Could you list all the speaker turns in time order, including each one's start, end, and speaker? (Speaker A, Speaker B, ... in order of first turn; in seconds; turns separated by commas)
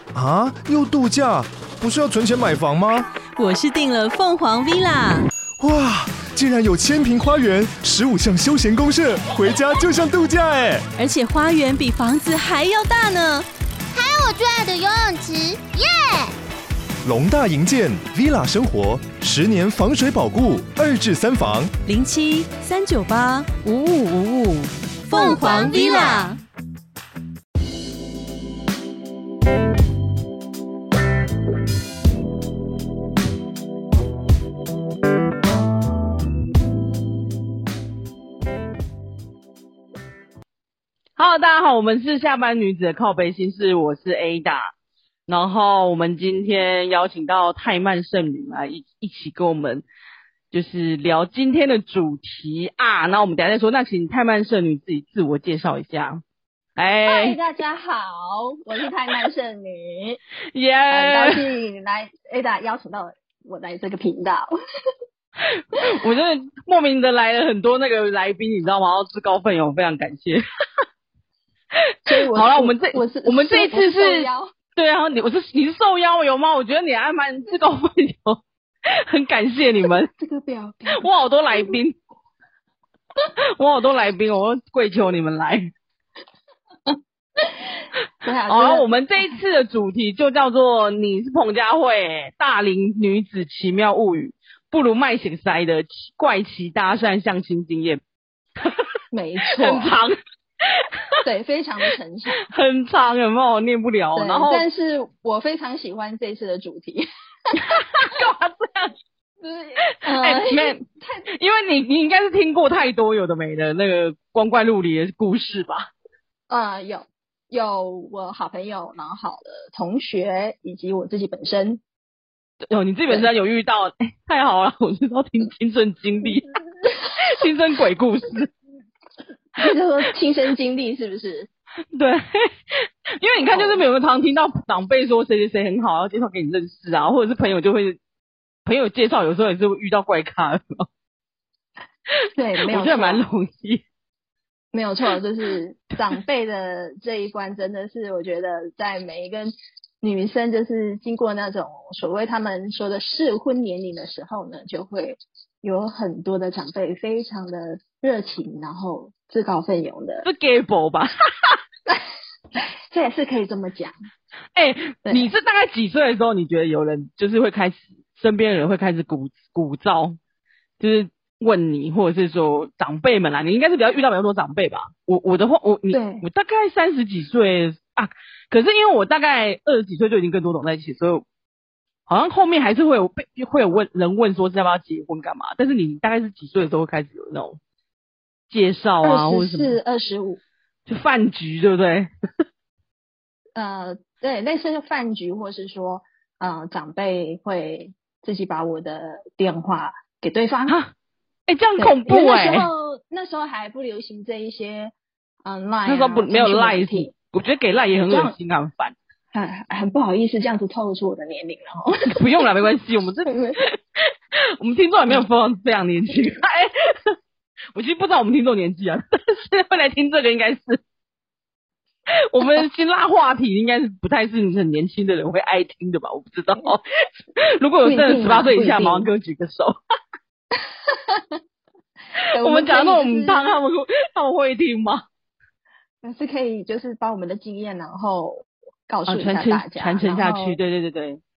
Speaker A: 0.1-3.1, Speaker B: 3.4-5.3, Speaker A: 5.6-10.9, Speaker B: 11.0-13.4, Speaker C: 13.9-16.3, Speaker A: 17.0-21.7, Speaker B: 21.9-26.4, Speaker C: 25.1-26.3, Speaker D: 41.2-44.7, Speaker D: 45.3-49.9, Speaker D: 50.5-56.2, Speaker D: 56.8-57.4, Speaker E: 57.1-60.2, Speaker D: 60.5-61.5, Speaker E: 60.9-64.5, Speaker D: 65.5-70.4, Speaker D: 71.8-80.1, Speaker E: 72.1-74.5, Speaker E: 80.2-81.1, Speaker D: 80.9-82.0, Speaker D: 83.4-85.7, Speaker E: 88.2-89.3, Speaker D: 88.5-98.0, Speaker D: 98.6-98.9, Speaker E: 99.1-99.9, Speaker D: 99.6-100.2, Speaker D: 100.7-101.2, Speaker E: 101.2-102.5, Speaker D: 102.4-104.7, Speaker E: 104.2-108.2, Speaker D: 107.6-108.9, Speaker E: 109.4-111.3, Speaker D: 110.1-115.9, Speaker E: 116.5-121.8, Speaker D: 122.7-126.6, Speaker D: 127.2-128.5, Speaker E: 129.6-131.5, Speaker D: 131.9-138.0, Speaker E: 133.4-133.8, Speaker D: 138.7-140.9, Speaker E: 142.3-143.2, Speaker D: 142.7-143.8, Speaker E: 144.7-160.3, Speaker D: 160.2-161.6, Speaker E: 162.6-163.9, Speaker D: 164.6-170.2, Speaker E: 165.1-165.3, Speaker D: 170.8-181.2, Speaker E: 175.9-176.2, Speaker D: 182.1-187.6, Speaker D: 188.5-189.8, Speaker E: 189.0-190.4, Speaker D: 190.9-192.1, Speaker E: 193.6-200.8, Speaker D: 201.5-202.7, Speaker E: 201.8-204.9, Speaker E: 205.4-207.1, Speaker D: 205.9-208.9, Speaker E: 208.1-208.3, Speaker E: 209.3-212.4, Speaker D: 212.2-213.8, Speaker E: 213.2-213.6, Speaker D: 214.6-217.2, Speaker D: 217.7-220.8, Speaker D: 222.3-226.8, Speaker D: 227.4-229.8, Speaker E: 227.8-229.1, Speaker E: 230.9-231.3, Speaker E: 232.3-233.5, Speaker D: 232.4-235.0, Speaker E: 236.0-240.6, Speaker D: 239.1-241.2